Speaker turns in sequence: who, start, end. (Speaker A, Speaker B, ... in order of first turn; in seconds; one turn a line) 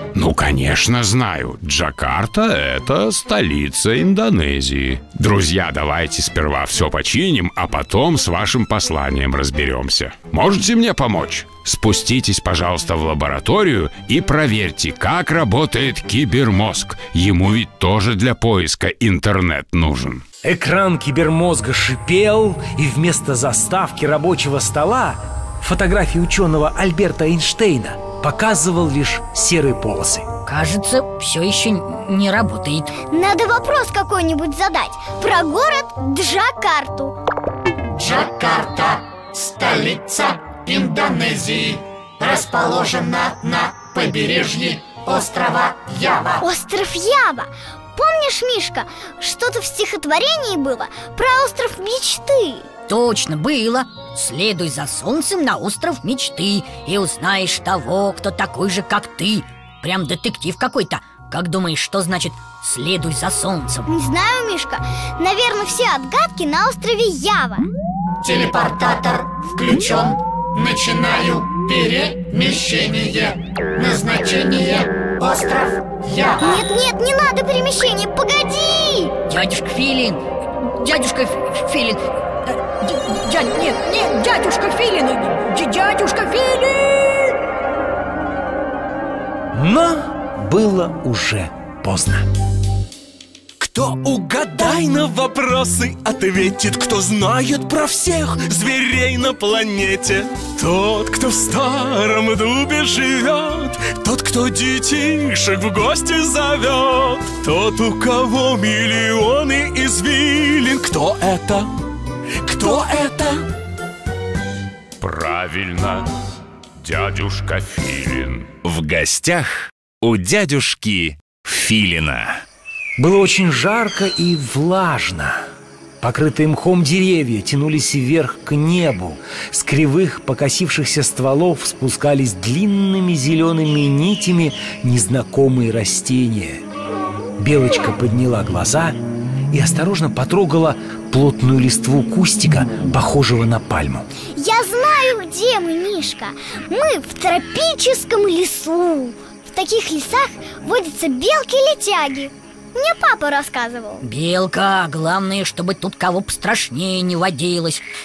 Speaker A: 0.1-20.2
Speaker B: 20.4-30.3
Speaker C: 30.4-32.9
Speaker D: 33.1-37.1
Speaker E: 37.9-46.4
Speaker D: 46.4-52.7
Speaker C: 52.9-63.9
Speaker D: 63.9-67.7
Speaker E: 68.2-76.6
Speaker D: 76.4-79.1
Speaker C: 79.3-87.3
Speaker B: 89.5-92.2
Speaker F: 93.6-111.7
Speaker F: 112.4-113.4
Speaker A: 115.0-116.0
Speaker A: 116.8-118.5
Speaker G: 118.6-122.4
Speaker B: 123.0-125.4
Speaker B: 126.0-136.6
Speaker B: 137.4-139.0
Speaker B: 139.5-144.1
Speaker D: 144.3-154.0
Speaker C: 154.0-157.8